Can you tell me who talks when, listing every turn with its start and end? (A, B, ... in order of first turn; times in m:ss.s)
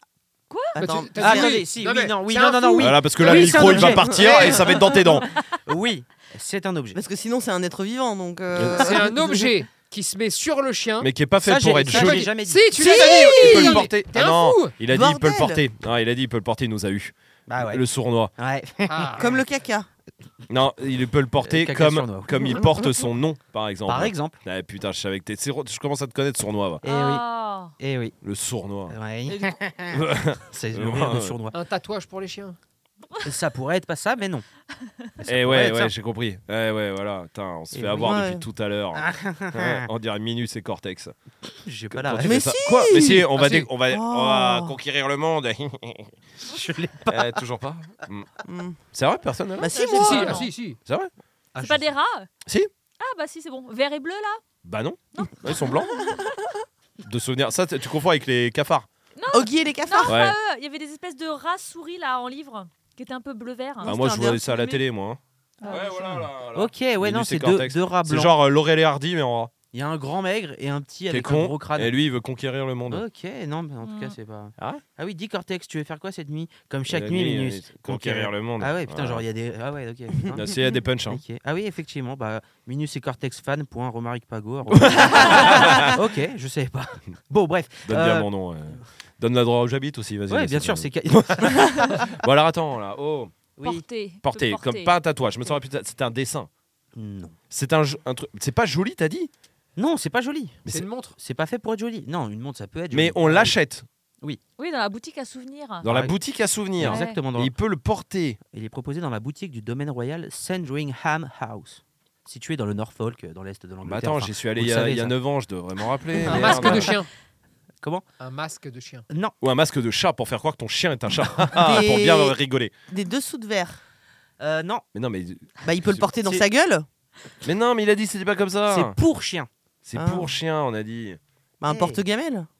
0:00.5-0:00.8 A
0:00.8-0:01.6 B
0:00.8-0:04.8 C
0:01.2-0:04.5 D
0:02.8-0:05.3 E
0:03.8-0:04.9 B
0:05.6-0:07.0 D
0:06.9-0:09.1 B
0:08.6-0:08.9 E
0:08.7-0:11.1 C
0:11.0-0:18.3 E
0:11.4-0:13.8 D
0:11.9-0:14.7 C
0:14.8-0:15.6 B
0:17.5-0:17.8 D
0:18.4-0:19.3 D
0:18.9-0:19.4 C
0:19.2-0:19.9 B
0:20.5-0:26.8 E
0:21.4-0:22.6 D
0:23.9-0:24.4 D
0:26.8-0:27.2 D
0:26.8-0:27.7 A
0:27.8-0:28.1 D
0:28.2-0:29.0 E
0:28.9-0:31.6 D
0:29.3-0:29.6 A
0:29.9-0:31.4 E
0:31.5-0:32.6 C
0:33.2-0:34.4 D
0:35.2-0:35.9 D
0:35.2-0:41.1 E
0:37.7-0:38.3 D
0:37.9-0:38.4 B
0:38.9-0:39.9 D
0:41.5-0:42.5 D
0:41.9-0:46.1 E
0:42.2-0:43.3 B
0:43.4-0:43.6 C
0:43.8-0:44.7 B
0:46.4-0:47.4 D
0:47.1-0:48.3 E
0:48.4-0:48.8 B
0:48.9-0:50.1 E
0:49.6-0:50.4 B
0:49.7-0:50.5 A
0:49.9-0:50.8 C
0:50.8-0:51.1 E
0:51.5-0:51.9 D
0:51.6-0:52.3 A
0:53.0-0:54.4 A
0:54.6-0:56.1 E
0:55.1-0:56.2 A
0:57.0-0:58.9 E
0:59.2-1:04.8 A
0:59.3-1:00.2 B
1:00.0-1:00.3 E
1:03.8-1:04.4 B
1:03.8-1:09.5 E
1:05.6-1:06.2 A
1:06.5-1:08.3 D
1:09.7-1:11.9 D
1:11.1-1:13.0 E
1:12.9-1:20.5 D
1:13.8-1:14.1 A
1:14.6-1:14.8 E
1:16.9-1:19.2 E
1:20.3-1:21.2 E
1:21.1-1:28.3 D
1:24.7-1:26.0 E
1:27.8-1:33.3 E
1:30.3-1:31.9 D
1:33.6-1:33.8 D
1:33.6-1:34.9 A
1:34.2-1:36.5 E
1:36.9-1:37.3 D
1:37.5-1:39.3 E
1:39.8-1:40.6 D
1:40.7-1:41.1 C
1:41.2-1:43.5 D
1:42.9-1:43.8 E
1:44.6-1:45.8 A
1:45.8-1:48.4 E
1:45.8-1:46.2 D
1:46.8-1:47.5 D
1:46.8-1:47.2 A
1:48.5-1:55.2 D
1:53.8-1:56.9 E
1:56.2-1:57.1 C
1:56.3-1:56.9 D
1:58.2-1:59.0 C
1:59.1-1:59.3 D
1:59.4-2:02.7 E
2:01.5-2:02.4 B
2:02.9-2:03.8 B
2:04.4-2:04.8 D
2:04.9-2:06.4 E
2:05.6-2:06.8 B
2:07.4-2:09.0 E
2:08.7-2:09.5 D
2:09.8-2:11.2 E
2:10.0-2:10.3 B
2:11.6-2:12.5 B
2:11.7-2:12.0 D